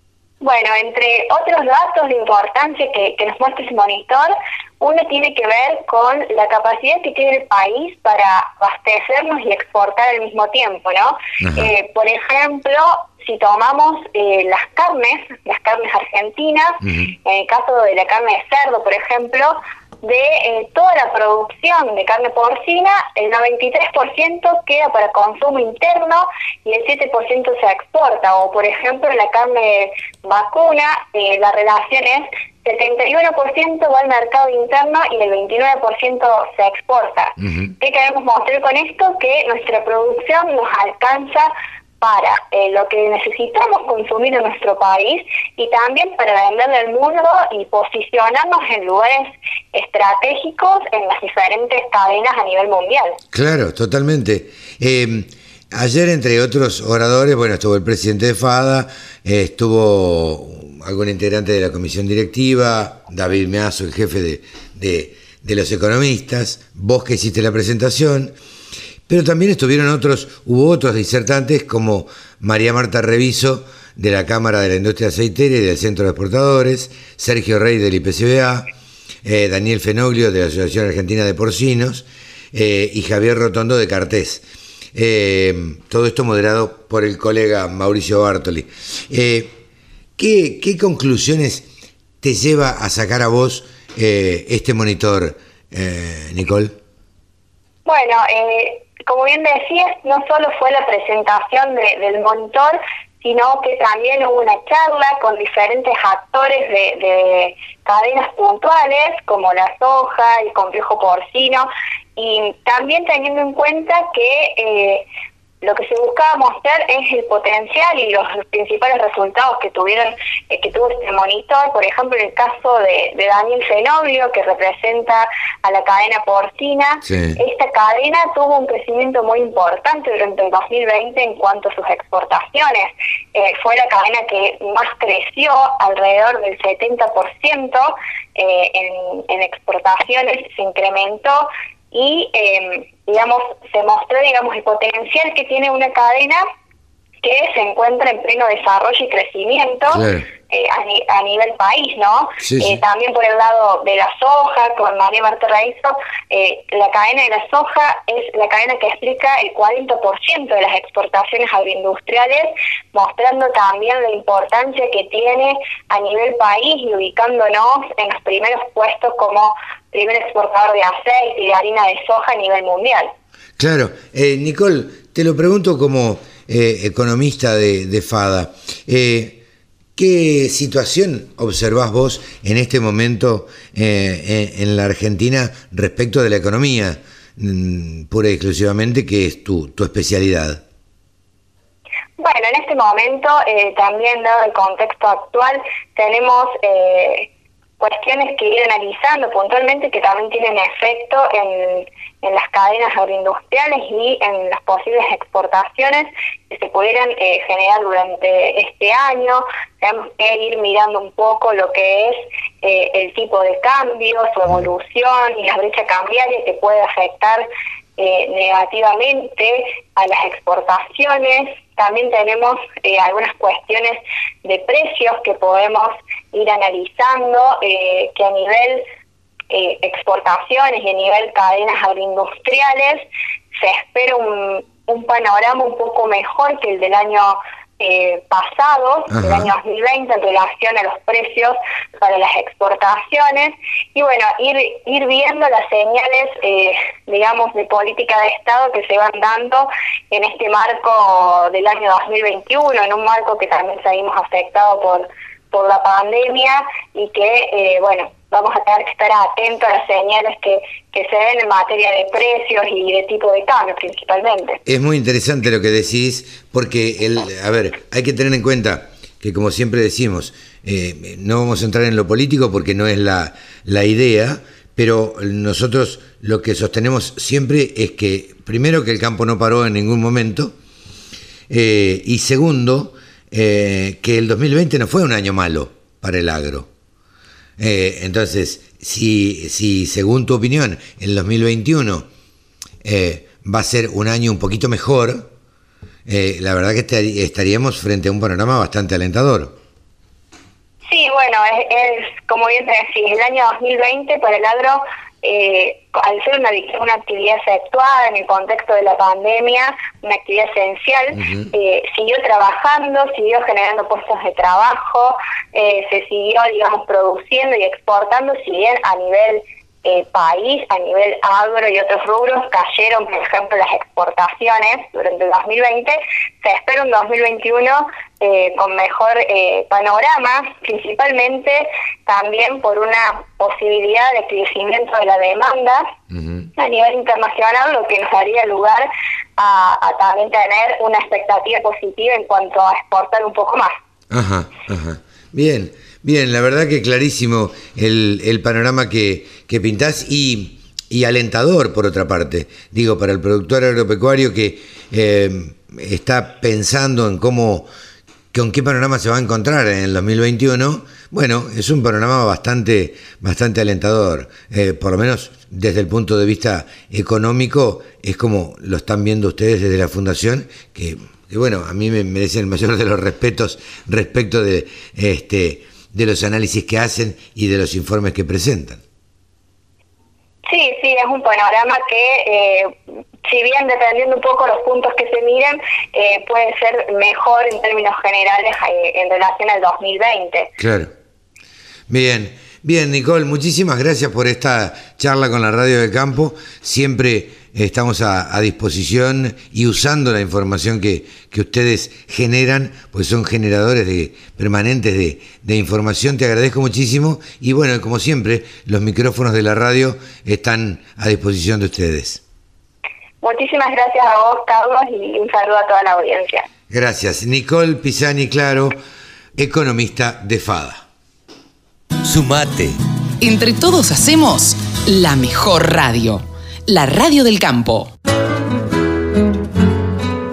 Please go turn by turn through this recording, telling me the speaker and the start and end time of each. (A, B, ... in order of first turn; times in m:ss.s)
0:00.4-0:53.2 A
0:11.4-0:11.7 B
0:16.8-0:17.1 B
0:37.4-0:37.7 B
0:53.3-1:08.4 B
1:09.1-1:18.7 B
1:19.2-1:29.6 B
1:30.2-1:31.7 B
1:32.2-1:36.8 B
1:37.9-1:55.1 A
1:55.6-2:26.4 A
2:07.0-2:07.4 B
2:27.2-2:53.1 A
2:29.9-2:30.3 B
2:32.4-2:32.8 B
2:53.6-2:59.4 B
3:00.0-3:10.6 B
3:12.2-3:17.3 A
3:17.8-3:37.5 A
3:38.0-3:48.8 A
3:49.5-4:24.6 A
3:59.1-3:59.5 B
4:24.7-4:40.6 B
4:41.5-4:46.7 B
4:47.6-4:52.1 B
4:52.8-4:55.3 B
4:56.1-4:59.6 B
5:00.9-5:35.9 A
5:11.1-5:11.5 B
5:36.1-5:36.5 B
5:36.6-5:38.9 A
5:39.4-5:43.8 A
5:44.1-5:57.7 B
5:58.3-6:18.8 B
6:20.5-6:30.5 A
6:30.6-6:30.9 B
6:31.9-6:52.2 B
6:53.2-6:56.5 A
6:56.7-6:58.8 B
6:59.4-7:00.8 B
7:02.0-7:02.8 B
7:03.2-7:07.9 C